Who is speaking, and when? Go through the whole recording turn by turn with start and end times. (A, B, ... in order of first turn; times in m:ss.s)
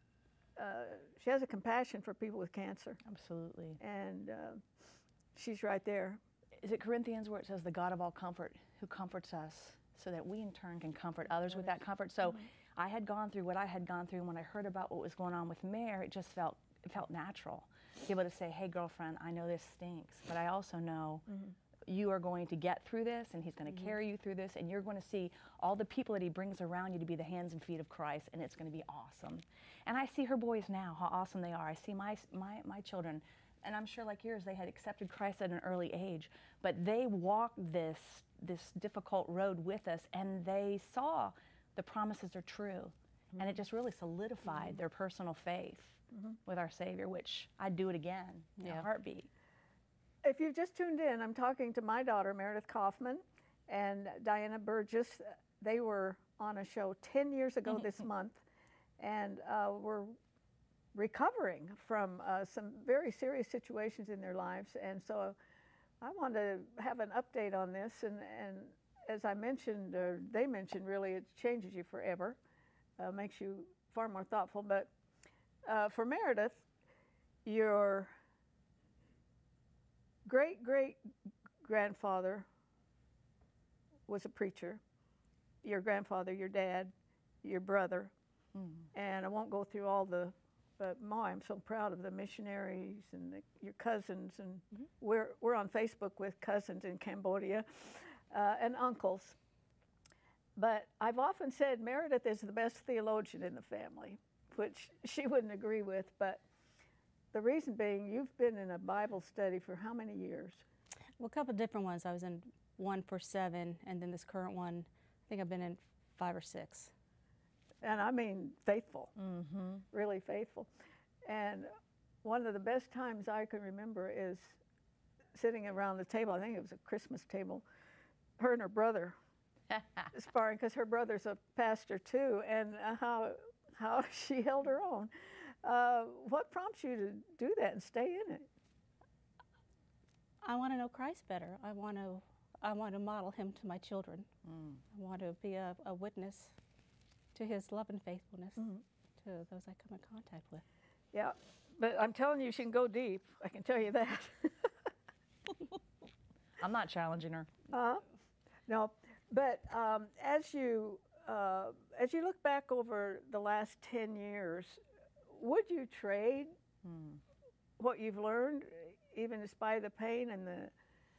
0:00.6-0:03.0 A
0:03.0-0:03.8 B
0:03.8-0:04.6 A
0:05.4-0:06.2 A
0:06.6-0:21.3 B
0:21.9-0:49.3 B
0:48.6-0:48.9 C
0:50.2-0:58.4 A
0:59.0-1:00.2 A
1:00.9-1:05.4 A
1:06.0-1:12.4 A
1:13.0-1:14.9 A
1:15.7-1:16.6 A
1:17.4-1:18.2 A
1:20.2-1:21.0 A
1:21.6-1:22.5 A
1:24.1-1:24.8 A
1:25.6-1:28.1 A
1:28.6-1:28.8 B
1:28.9-1:39.4 A
1:40.6-1:46.4 A
1:47.3-1:50.6 A
1:51.2-1:56.9 C
1:57.8-1:59.1 A
1:59.2-1:59.8 B
1:59.9-2:00.7 A
2:01.3-2:01.7 A
2:02.2-2:04.6 A
2:05.3-2:07.6 A
2:08.4-2:09.2 A
2:10.1-2:18.5 A
2:20.4-2:24.3 C
2:24.9-2:26.6 C
2:27.4-2:30.6 C
2:31.1-2:34.7 A
2:36.6-2:37.7 B
2:37.7-2:38.0 A
2:38.7-2:46.5 A
2:46.8-2:47.2 B
2:47.8-2:50.7 A